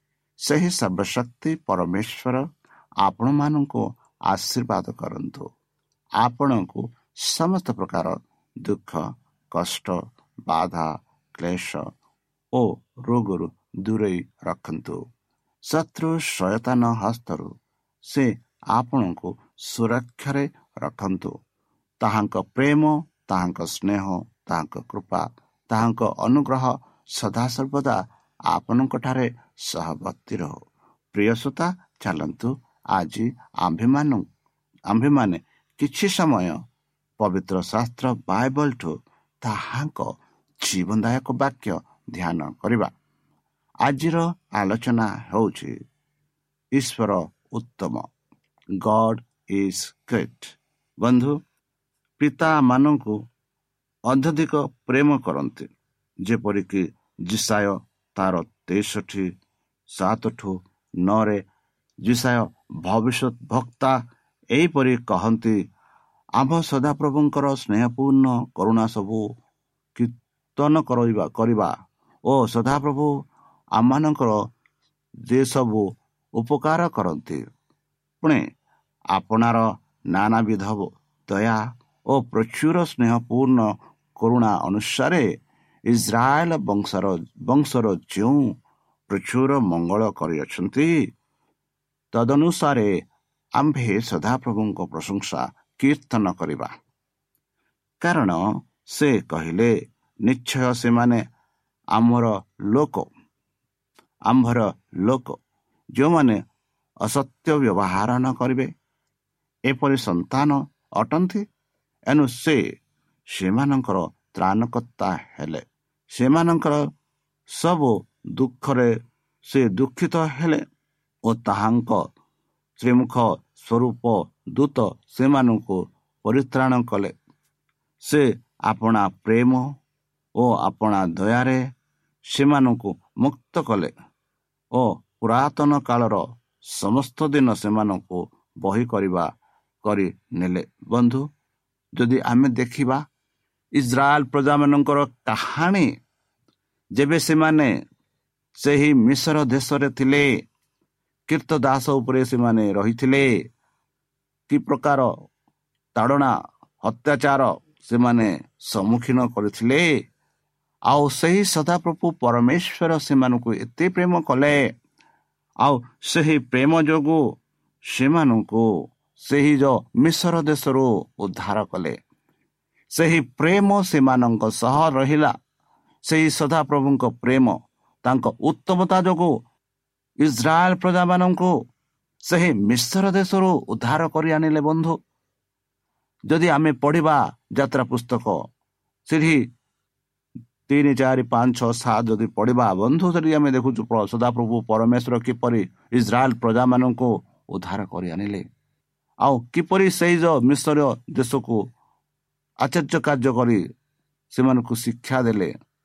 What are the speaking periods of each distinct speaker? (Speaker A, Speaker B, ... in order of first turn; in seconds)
Speaker A: 0.5-2.4, 3.0-5.5, 6.2-11.9, 12.5-15.0, 15.7-17.5, 18.1-21.3, 22.0-30.6, 31.1-34.3, 34.9-36.6, 37.2-42.9, 43.9-45.8, 46.8-48.1, 48.8-51.4, 52.2-53.2, 54.1-55.7, 56.3-59.3, 59.9-61.5, 62.0-64.0, 64.5-65.6, 66.4-69.3, 70.0-71.7, 72.3-73.1, 73.8-74.4, 75.3-77.5, 79.1-85.3, 85.9-88.6, 89.1-91.1, 92.1-93.1, 93.6-96.7, 98.0-99.7, 100.2-101.2, 101.9-103.1, 104.3-105.4, 106.0-106.4, 107.0-108.7, 109.7-111.5, 112.1-112.6, 113.3-116.8, 117.5-118.9, 119.4-120.6, 121.3-122.1, 122.8-127.1, 128.0-129.7, 130.4-131.6, 132.3-133.9, 134.7-139.3, 139.8-141.2, 142.0-143.0, 143.8-145.9, 147.0-147.7, 148.6-150.3, 151.3-153.4, 154.5-155.1, 156.0-160.0, 160.9-164.7, 165.6-172.0, 172.9-175.3, 176.1-179.4, 180.2-181.5, 182.3-185.0, 186.3-188.4, 189.1-189.5, 190.7-198.4, 199.2-201.6, 202.6-203.6, 204.3-205.5